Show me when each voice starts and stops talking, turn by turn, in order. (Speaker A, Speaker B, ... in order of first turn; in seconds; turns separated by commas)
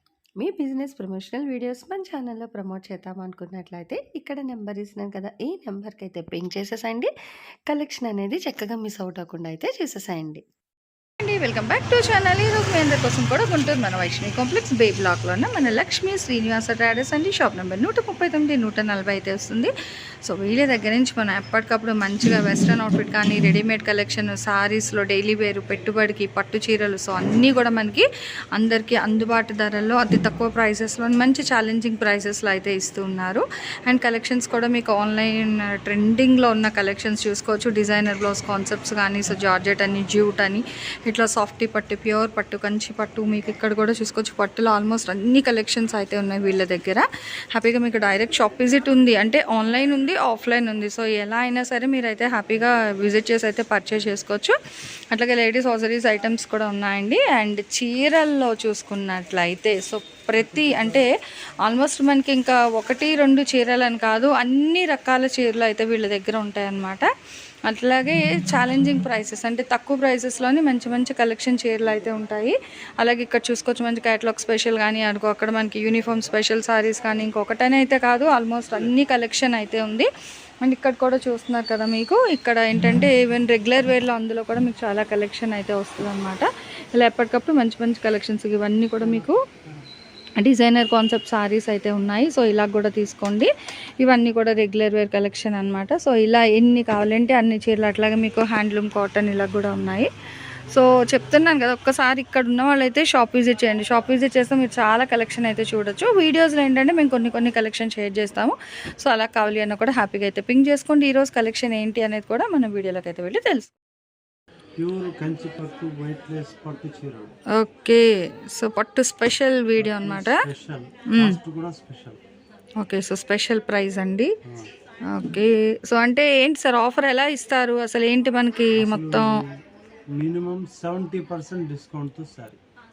Speaker A: 0.4-7.1, Speaker A: 7.7-10.4, Speaker B: 11.2-19.7, Speaker B: 20.2-54.5, Speaker B: 55.1-61.1, Speaker B: 61.6-67.1, Speaker B: 67.7-80.1, Speaker B: 80.6-89.4, Speaker B: 90.4-100.1, Speaker B: 100.7-113.7, Speaker C: 114.8-117.3, Speaker B: 117.5-120.5, Speaker C: 119.8-122.2, Speaker B: 121.1-121.4, Speaker B: 122.8-124.3, Speaker C: 124.4-124.7, Speaker B: 125.1-129.4, Speaker C: 128.8-132.6